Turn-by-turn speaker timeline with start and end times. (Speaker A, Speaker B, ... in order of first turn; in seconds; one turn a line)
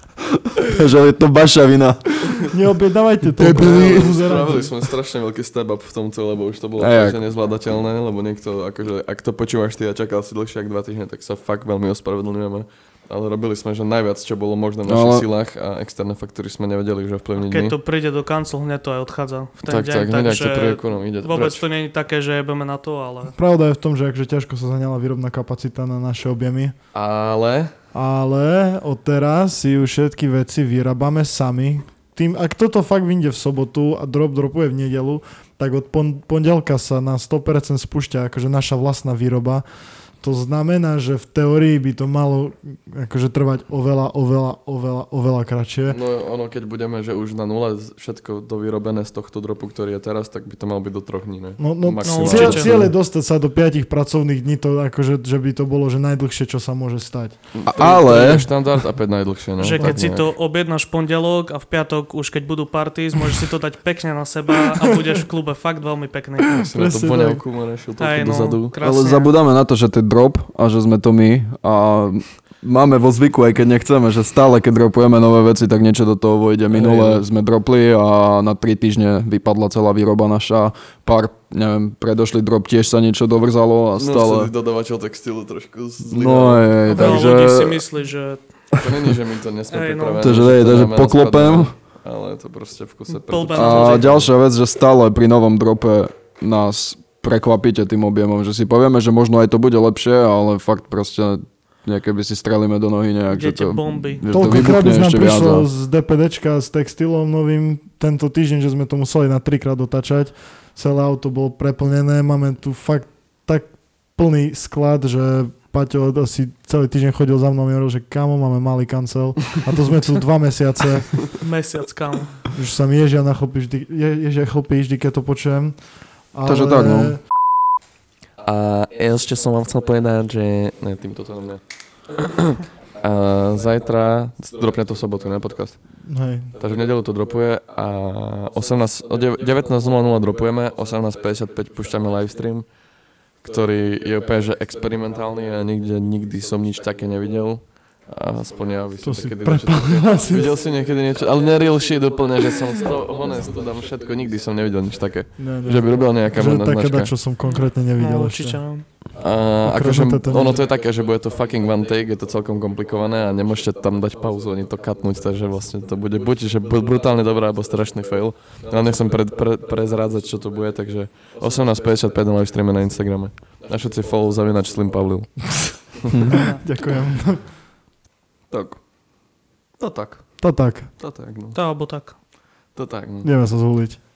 Speaker A: 0.4-2.5
Speaker B: 2.4-4.8
Speaker A: 3.3-4.2
Speaker C: 3.5-17.8
Speaker A: 6.8-7.2
Speaker A: 14.8-15.3
Speaker D: 17.4-23.3
Speaker C: 19.6-21.6
Speaker B: 23.3-26.7
Speaker C: 26.9-27.7
Speaker B: 27.9-46.0
Speaker C: 45.8-52.8
Speaker B: 51.6-57.4
Speaker D: 52.0-52.9
Speaker C: 57.6-60.3
Speaker A: 57.6-58.5
Speaker D: 59.6-66.6
Speaker B: 59.6-60.0
Speaker C: 66.5-68.8
Speaker B: 66.6-67.4
Speaker D: 68.0-69.3
Speaker A: 68.8-84.5
Speaker C: 76.7-77.2
Speaker C: 84.0-87.1
Speaker A: 86.0-87.8
Speaker D: 86.8-88.4
Speaker C: 88.8-94.3
Speaker D: 89.7-90.4
Speaker A: 90.2-91.7
Speaker D: 93.1-94.2
Speaker A: 93.5-105.7
Speaker D: 103.3-104.2
Speaker B: 104.3-121.4
Speaker D: 121.4-122.5
Speaker B: 122.5-127.2
Speaker A: 126.4-127.2
Speaker C: 128.4-142.7
Speaker B: 136.0-136.5
Speaker C: 143.4-157.2
Speaker B: 149.0-150.5
Speaker B: 155.4-158.8
Speaker D: 157.4-158.9
Speaker C: 159.1-176.0
Speaker B: 159.6-160.6
Speaker B: 176.3-177.5
Speaker C: 178.5-178.8
Speaker C: 179.8-181.6
Speaker B: 180.4-180.9
Speaker D: 181.5-182.2
Speaker C: 182.7-183.3
Speaker B: 183.2-184.0